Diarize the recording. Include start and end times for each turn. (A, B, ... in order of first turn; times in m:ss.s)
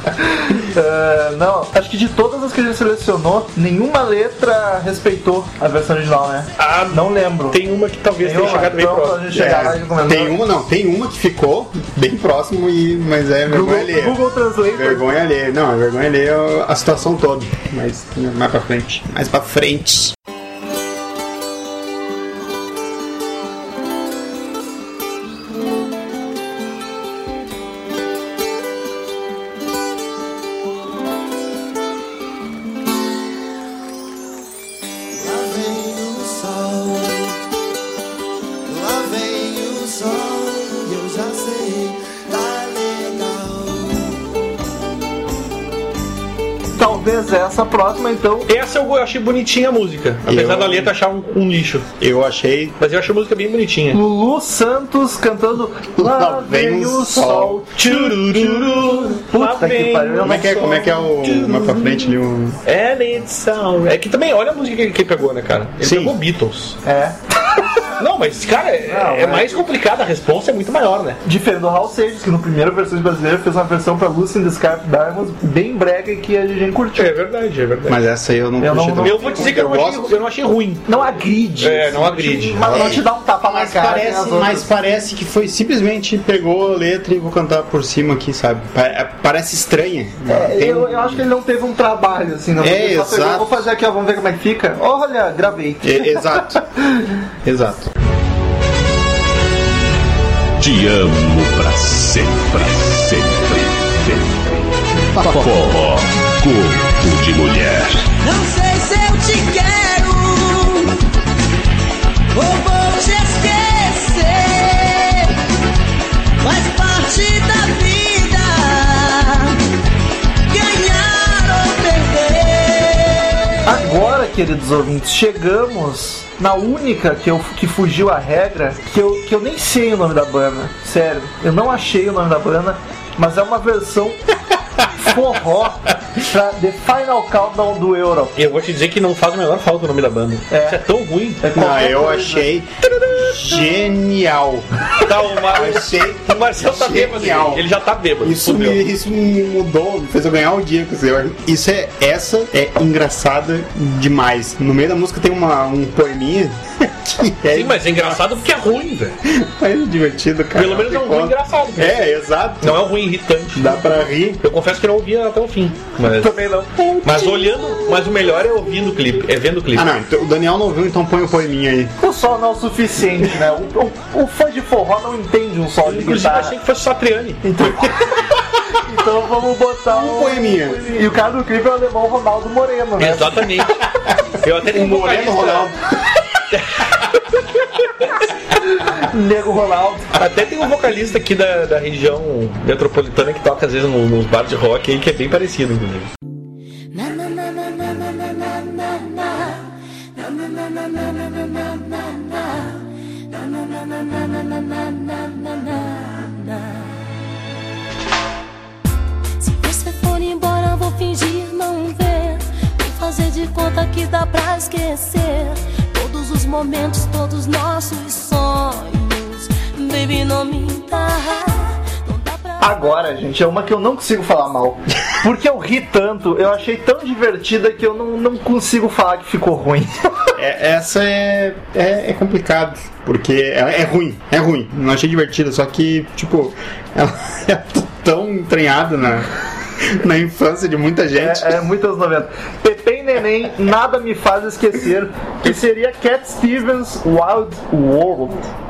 0:00.3-0:07.6 A
0:06.6-0:09.3 B
0:08.2-0:10.4 A
0:09.3-0:14.2 C
0:13.5-0:15.1 A
0:14.7-0:20.2 C
0:35.1-0:37.4 D
0:38.7-0:44.2 D
0:46.8-0:48.5 A
0:48.5-0:51.9 B
0:50.2-0:50.9 C
0:52.0-0:52.8 C
0:52.8-0:54.0 B
0:53.9-1:01.0 A
0:56.0-0:57.8 C
0:57.8-1:02.0 B
1:00.2-1:02.6 C
1:02.6-1:06.8 B
1:05.8-1:06.2 C
1:06.8-1:07.2 A
1:08.0-1:11.2 B
1:08.9-1:09.7 A
1:11.2-1:17.1 A
1:17.0-1:18.0 B
1:17.9-1:20.2 C
1:18.6-1:19.4 A
1:19.0-1:23.0 B
1:20.9-1:24.7 A
1:22.7-1:31.2 C
1:30.3-1:37.1 A
1:32.6-1:33.6 C
1:35.8-1:36.6 C
1:37.4-1:37.9 C
1:40.6-1:48.2 E
1:45.2-1:45.5 C
1:48.3-1:50.0 D
2:03.6-2:14.2 A
2:15.0-2:18.4 A
2:18.4-2:21.4 B
2:20.5-2:20.8 A
2:21.4-2:22.5 A
2:21.5-2:24.7 C
2:25.0-2:28.9 B
2:25.5-2:27.6 C
2:28.2-2:38.2 C
2:37.5-2:39.2 B
2:39.3-2:42.9 C
2:40.6-2:42.1 B
2:42.6-2:46.4 B
2:43.6-2:44.4 C
2:46.2-2:46.7 A
2:47.0-2:49.9 B
2:47.0-2:47.4 C
2:49.7-2:51.9 C
2:52.0-2:56.5 A
2:55.8-2:57.6 B
2:57.4-3:03.4 A
2:59.9-3:00.8 C
3:03.0-3:03.8 B
3:04.4-3:05.7 B
3:04.6-3:05.9 C
3:06.5-3:07.1 B
3:08.6-3:10.2 A
3:10.2-3:16.1 B
3:16.9-3:27.0 F
3:29.4-3:42.8 F
3:42.6-3:50.3 A
3:50.4-4:01.6 C
4:01.2-4:08.5 A